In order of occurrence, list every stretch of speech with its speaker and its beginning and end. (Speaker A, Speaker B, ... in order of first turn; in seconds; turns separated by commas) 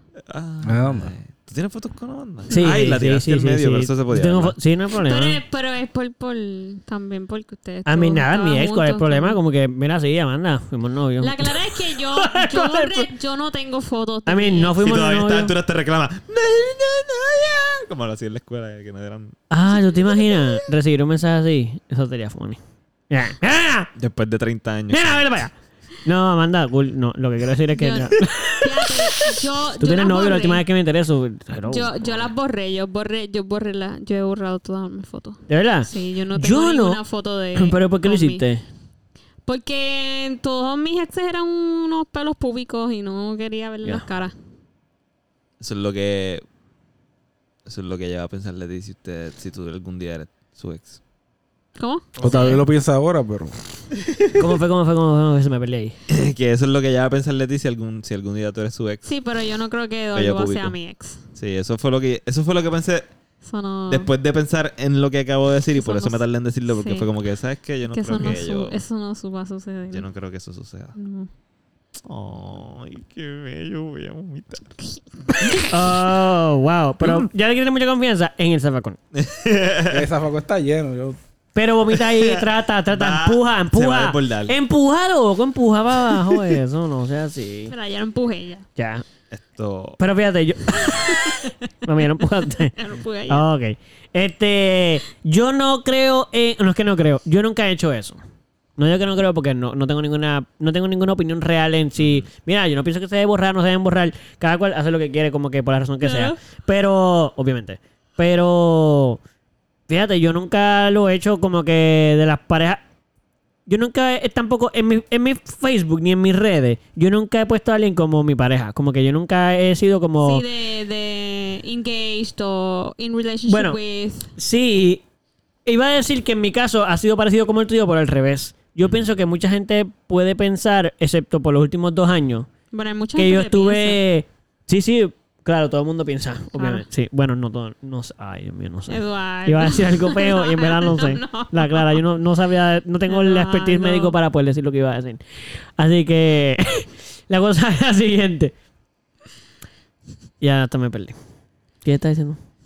Speaker A: 0.3-4.5, Speaker B: 0.6-1.1, Speaker C: 2.5-5.4, Speaker D: 5.0-9.4, Speaker C: 7.8-13.1, Speaker D: 11.2-14.8, Speaker C: 14.2-15.5, Speaker A: 14.8-20.5, Speaker C: 19.5-22.6, Speaker C: 23.1-23.9, Speaker A: 23.9-25.3, Speaker C: 24.9-32.3, Speaker D: 27.8-30.6, Speaker D: 31.7-38.4, Speaker C: 35.5-37.0, Speaker C: 37.6-38.6, Speaker D: 39.5-44.3, Speaker A: 45.6-46.4, Speaker A: 47.6-51.0, Speaker D: 51.8-52.6, Speaker B: 52.2-53.6, Speaker A: 52.2-52.5, Speaker C: 54.4-56.0, Speaker A: 56.1-59.1, Speaker D: 59.0-61.2, Speaker A: 60.1-60.7, Speaker A: 61.4-63.1, Speaker D: 63.4-64.1, Speaker A: 63.9-68.8, Speaker D: 65.7-67.1, Speaker D: 67.8-70.0, Speaker A: 69.9-70.9, Speaker D: 70.9-71.3, Speaker A: 72.0-74.7, Speaker A: 75.3-75.7, Speaker C: 75.6-79.0, Speaker A: 77.0-77.3, Speaker A: 79.1-80.1, Speaker B: 79.9-81.2, Speaker C: 81.5-87.7, Speaker A: 81.9-84.5, Speaker A: 86.1-86.4, Speaker D: 87.7-88.6, Speaker C: 88.8-89.0, Speaker A: 89.3-90.0, Speaker C: 90.0-92.7, Speaker D: 91.1-91.5, Speaker D: 92.7-93.5, Speaker C: 93.3-98.2, Speaker C: 98.8-109.2, Speaker A: 102.0-102.2, Speaker D: 106.0-106.4, Speaker C: 109.9-112.8, Speaker C: 113.7-120.4, Speaker D: 120.2-124.3, Speaker C: 123.5-123.8, Speaker C: 124.3-125.0, Speaker C: 125.7-132.5, Speaker D: 132.7-134.0, Speaker C: 133.2-145.2, Speaker D: 136.6-136.8, Speaker D: 138.9-142.0, Speaker D: 143.1-144.1, Speaker C: 145.8-148.5, Speaker C: 150.4-151.2, Speaker C: 151.8-152.4